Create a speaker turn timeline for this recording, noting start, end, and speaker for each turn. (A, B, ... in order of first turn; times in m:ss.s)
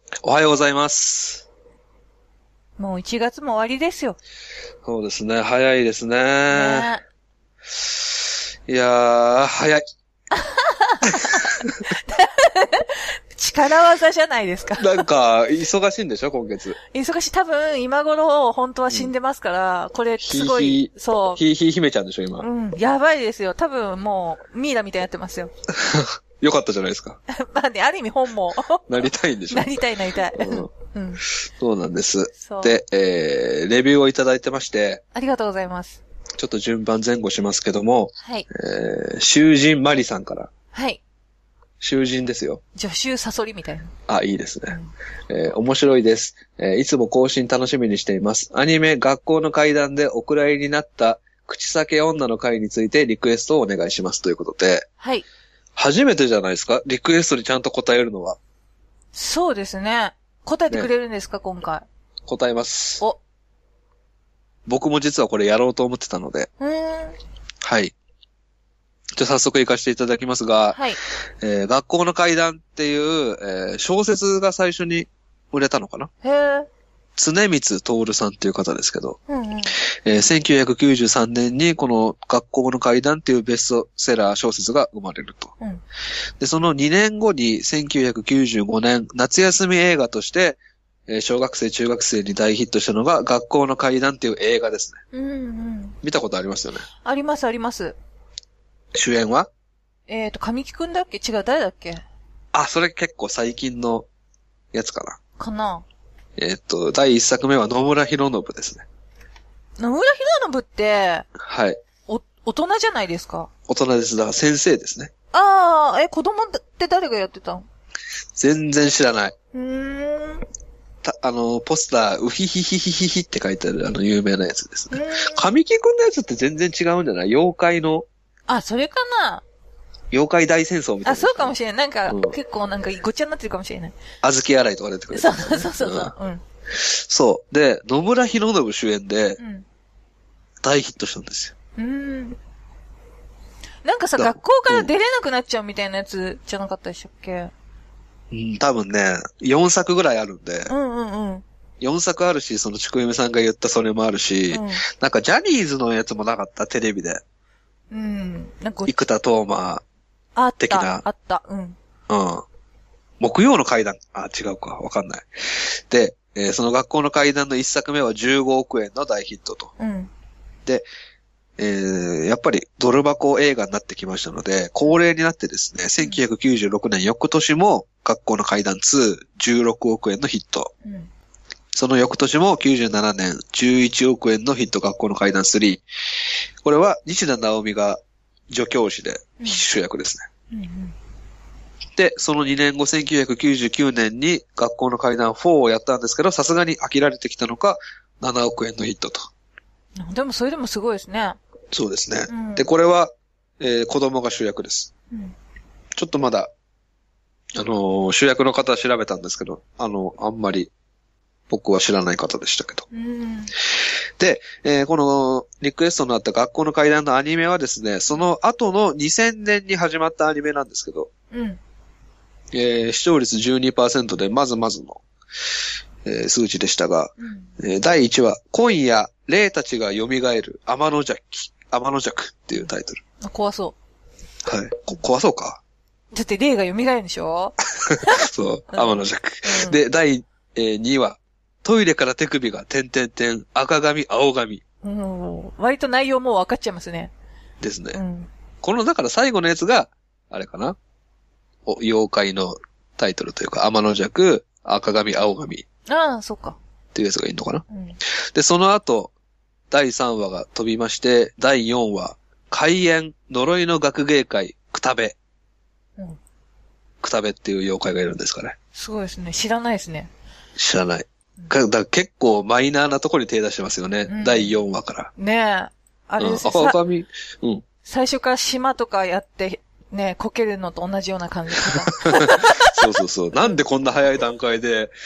0:00.2-0:01.5 A
0:02.8-0:04.2 B
0:04.8-0:06.9 A
0:06.5-0:07.0 B
0:08.7-0:09.8 A
0:10.3-0:15.0 B
0:11.1-0:11.7 A
0:14.8-0:16.8 A
0:16.9-0:21.4 B
0:20.2-0:22.5 A
0:22.4-0:25.5 B
0:25.7-0:27.2 A
0:27.3-0:28.9 B
0:28.9-0:29.7 A
0:29.5-0:31.2 B
0:30.4-0:30.7 A
0:31.6-0:35.0 A
0:32.4-0:32.8 B
0:35.1-0:36.0 B
0:36.4-0:40.5 A
0:38.2-0:38.5 B
0:40.7-0:41.0 B
0:41.8-0:42.6 A
0:42.8-0:43.9 B
0:44.1-0:44.8 A
0:45.3-0:54.9 A
0:55.0-0:55.3 B
0:55.8-0:58.4 A
0:59.1-1:01.9 B
1:02.3-1:03.0 A
1:04.7-1:06.5 A
1:06.6-1:07.2 B
1:07.6-1:07.9 A
1:09.2-1:10.8 A
1:10.7-1:11.0 B
1:11.4-1:16.1 A
1:16.2-1:16.7 B
1:17.2-1:19.2 A
1:19.3-1:19.8 B
1:20.0-1:25.5 A
1:26.4-1:35.0 A
1:35.1-1:36.0 B
1:36.0-1:36.9 A
1:37.0-1:38.0 B
1:38.9-1:39.5 A
1:40.1-1:42.0 B
1:42.5-1:44.1 A
1:44.7-1:45.2 A
1:45.4-1:45.8 B
1:46.4-1:48.8 A
1:49.8-1:51.3 B
1:51.4-1:51.8 A
1:52.1-1:53.5 B
1:53.7-1:55.1 A
1:55.3-1:57.7 B
1:58.4-1:59.4 A
1:59.5-2:00.5 B
2:01.0-2:08.1 A
2:04.9-2:05.5 B
2:08.5-2:09.4 B
2:10.1-2:11.6 A
2:11.0-2:14.0 B
2:12.1-2:12.4 A
2:14.2-2:16.1 A
2:15.1-2:16.4 B
2:16.7-2:19.4 A
2:19.4-2:19.7 B
2:20.6-2:21.5 A
2:21.8-2:22.4 B
2:23.8-2:27.5 B
2:24.2-2:24.9 A
2:28.3-2:30.7 A
2:30.7-2:31.4 B
2:31.8-2:37.2 A
2:34.5-2:34.8 B
2:37.9-2:38.9 B
2:38.9-2:39.8 A
2:40.4-2:41.8 B
2:40.6-2:41.0 A
2:42.1-2:42.4 A
2:43.2-2:49.7 A
2:49.8-2:50.1 B
2:51.6-3:00.7 A
3:01.7-3:05.8 A
3:06.6-3:10.2 A
3:10.5-3:10.9 B
3:12.0-3:19.3 A
3:20.0-3:21.4 B
3:21.7-3:24.9 A
3:22.3-3:22.7 B
3:26.0-3:26.5 A
3:27.6-3:30.7 A
3:31.5-3:32.9 A
3:32.9-3:33.5 B
3:34.2-3:41.1 A
3:41.3-3:41.6 B
3:42.5-3:45.0 A
3:46.0-3:53.0 A
3:47.2-3:47.5 B
3:53.2-3:53.8 B
3:54.5-3:55.6 A
3:56.1-3:59.8 B
3:57.9-4:04.6 A
4:04.8-4:07.1 B
4:07.6-4:08.0 A
4:07.9-4:08.3 B
4:08.6-4:10.8 A
4:11.7-4:15.6 A
4:15.9-4:16.6 B
4:17.0-4:17.6 A
4:17.7-4:18.0 B
4:18.3-4:19.1 A
4:19.7-4:25.2 A
4:27.0-4:28.6 A
4:28.8-4:30.1 B
4:30.6-4:35.1 A
4:34.1-4:34.6 B
4:35.2-4:36.8 B
4:36.2-4:37.6 A
4:37.8-4:42.8 B
4:42.0-4:44.9 A